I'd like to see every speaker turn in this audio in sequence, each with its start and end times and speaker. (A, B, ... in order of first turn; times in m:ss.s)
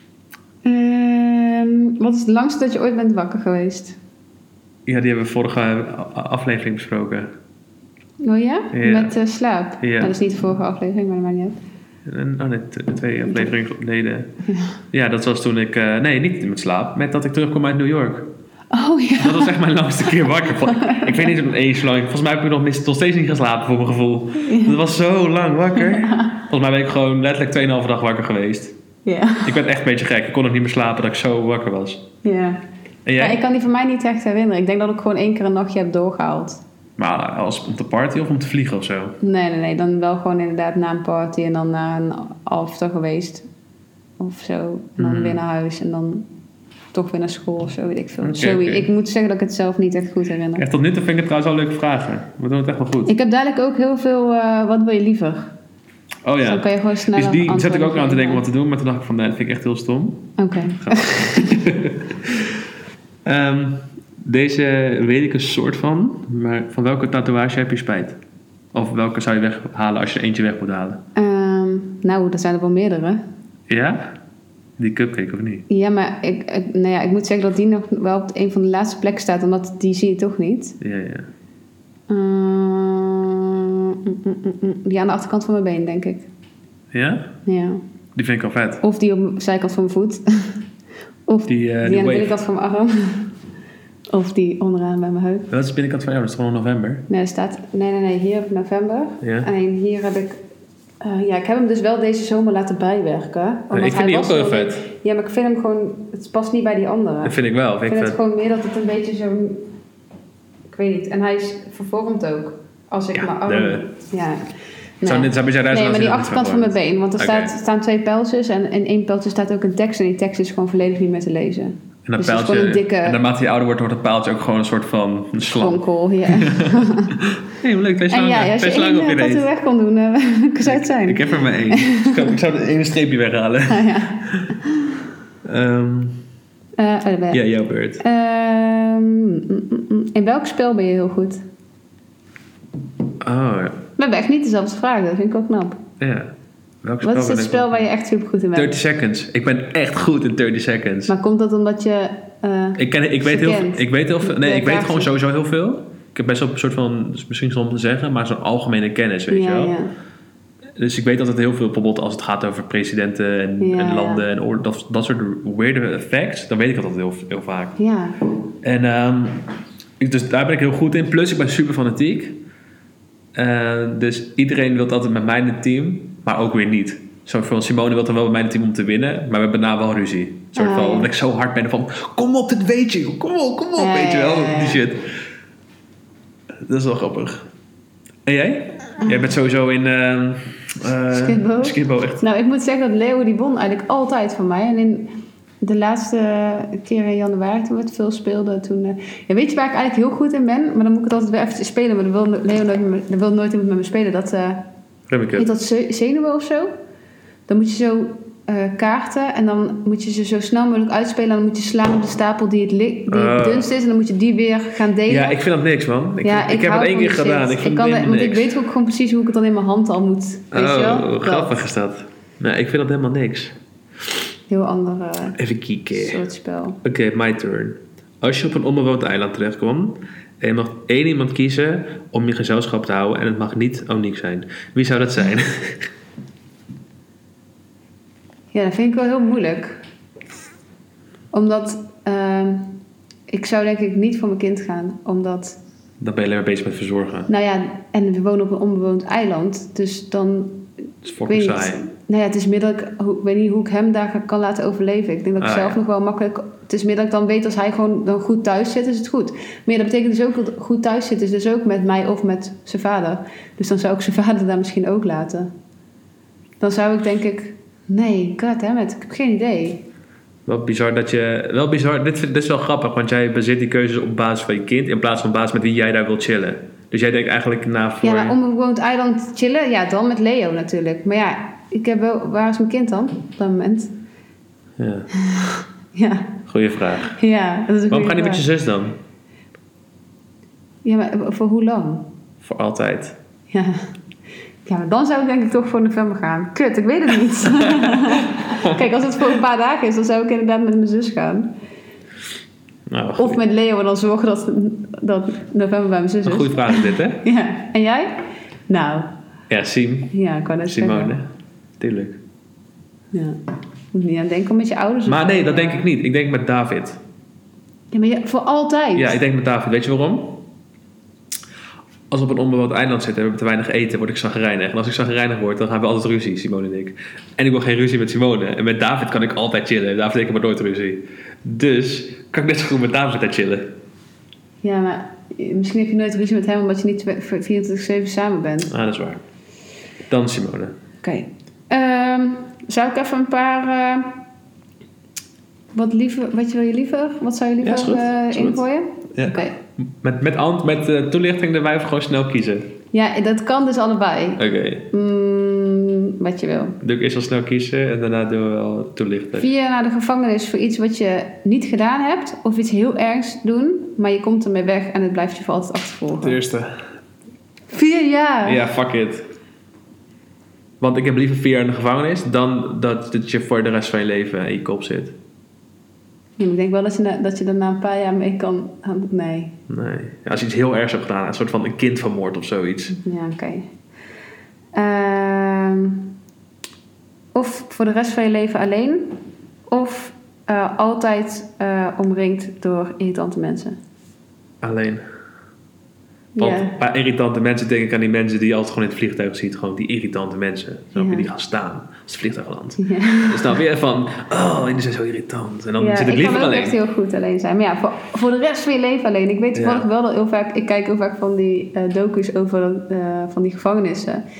0:00.6-0:04.0 A
0:04.8-0:07.3 B
0:08.2-0:11.6 A
0:08.7-0:09.1 B
0:09.8-0:10.1 B
0:12.0-0:14.3 B
0:13.2-0:13.5 A
0:14.4-0:14.8 A
0:14.9-0:18.3 B
0:18.7-0:21.4 A
0:19.2-0:28.7 B
0:24.4-0:24.8 A
0:25.7-0:26.4 A
0:29.0-0:29.6 A
0:29.4-0:32.0 B
0:32.2-0:32.6 A
0:33.0-0:33.4 B
0:33.2-0:36.6 A
0:37.0-0:39.2 B
0:39.2-0:43.4 A
0:44.2-0:46.3 A
0:45.0-0:45.4 B
0:46.9-0:50.6 A
0:48.2-0:48.9 B
0:50.6-0:53.1 B
0:53.1-0:55.5 A
0:56.2-1:02.6 B
0:56.4-0:58.4 A
1:00.4-1:01.6 A
1:03.2-1:08.2 B
1:08.7-1:11.0 B
1:11.1-1:13.2 A
1:13.7-1:14.1 B
1:14.8-1:15.6 B
1:15.7-1:20.8 A
1:20.8-1:21.3 B
1:22.1-1:26.3 A
1:26.9-1:27.3 B
1:27.4-1:27.8 A
1:28.1-1:28.8 B
1:28.8-1:30.6 A
1:31.3-1:33.3 A
1:31.5-1:32.4 B
1:34.1-1:35.5 A
1:35.5-1:37.0 B
1:37.1-1:40.4 A
1:39.2-1:39.5 B
1:41.0-1:49.7 A
1:43.7-1:44.8 B
1:47.2-1:48.2 B
1:50.7-1:54.4 A
1:53.1-1:53.9 B
1:55.0-2:03.2 A
1:55.0-1:57.5 B
2:02.0-2:09.4 B
2:05.5-2:07.2 A
2:08.1-2:12.3 A
2:10.6-2:14.5 B
2:13.7-2:14.9 A
2:15.4-2:16.2 B
2:16.8-2:17.4 A
2:17.3-2:18.0 B
2:18.0-2:21.4 A
2:23.2-2:23.8 B
2:24.0-2:25.8 A
2:26.0-2:26.3 B
2:26.8-2:27.8 B
2:27.0-2:28.8 A
2:28.5-2:31.1 B
2:31.1-2:35.1 A
2:32.8-2:39.8 B
2:39.3-2:39.9 A
2:40.8-2:47.8 B
2:43.6-2:44.2 A
2:47.8-2:48.2 A
2:48.6-2:49.4 B
2:50.0-2:52.4 B
2:53.3-3:05.1 B
3:00.5-3:01.1 A
3:03.8-3:04.8 A
3:06.6-3:07.5 B
3:08.2-3:12.2 B
3:09.0-3:09.3 A
3:11.1-3:15.1 A
3:15.6-3:24.6 A
3:25.1-3:25.5 B
3:25.3-3:26.7 A
3:27.5-3:35.4 A
3:33.1-3:33.7 B
3:35.1-3:38.5 B
3:36.2-3:41.6 A
3:40.5-3:43.6 B
3:44.5-3:45.4 A
3:45.3-3:46.2 B
3:45.9-3:46.8 A
3:46.8-3:55.9 B
3:58.5-3:59.8 A
4:01.3-4:02.8 A
4:03.3-4:05.6 A
4:06.0-4:07.3 B
4:07.3-4:10.7 A
4:11.0-4:11.8 B
4:11.2-4:25.5 A
4:15.4-4:15.8 B
4:26.6-4:29.8 A
4:30.4-4:38.4 B
4:38.0-4:43.9 A
4:44.8-4:45.1 B
4:45.2-4:46.4 A
4:46.5-4:47.1 B
4:47.0-4:48.4 A
4:47.9-4:49.0 B
4:50.8-4:52.1 A
4:52.4-4:53.2 B
4:53.5-4:53.9 A
4:54.6-5:01.5 A
4:57.4-4:58.8 B
5:02.9-5:03.4 B
5:03.2-5:09.1 A
5:06.2-5:07.2 B
5:09.5-5:10.1 B
5:10.1-5:11.1 A
5:10.6-5:11.3 B
5:11.8-5:12.2 B
5:13.1-5:13.4 A
5:13.9-5:15.9 A
5:15.0-5:17.0 B
5:17.9-5:19.2 A
5:18.9-5:20.4 B
5:22.1-5:33.7 B
5:34.6-5:38.7 A
5:38.7-5:39.2 B
5:40.1-5:40.7 B
5:41.0-5:44.2 A
5:45.7-5:49.6 A
5:47.6-5:48.6 B
5:49.1-5:52.7 B
5:52.9-5:56.8 A
5:54.4-5:54.9 B
5:56.8-5:59.5 B
5:59.4-6:06.4 A
6:06.2-6:06.8 B
6:07.7-6:08.6 A
6:08.4-6:09.3 B
6:10.8-6:15.1 B
6:16.4-6:19.5 A
6:19.7-6:22.9 B
6:22.9-6:23.7 A
6:24.7-6:26.1 A
6:27.3-6:33.8 A
6:34.6-6:35.0 B
6:36.3-6:36.8 A
6:36.4-6:46.8 B
6:41.0-6:41.3 A
6:42.8-6:43.6 A
6:45.8-6:54.2 A
6:49.5-6:49.9 B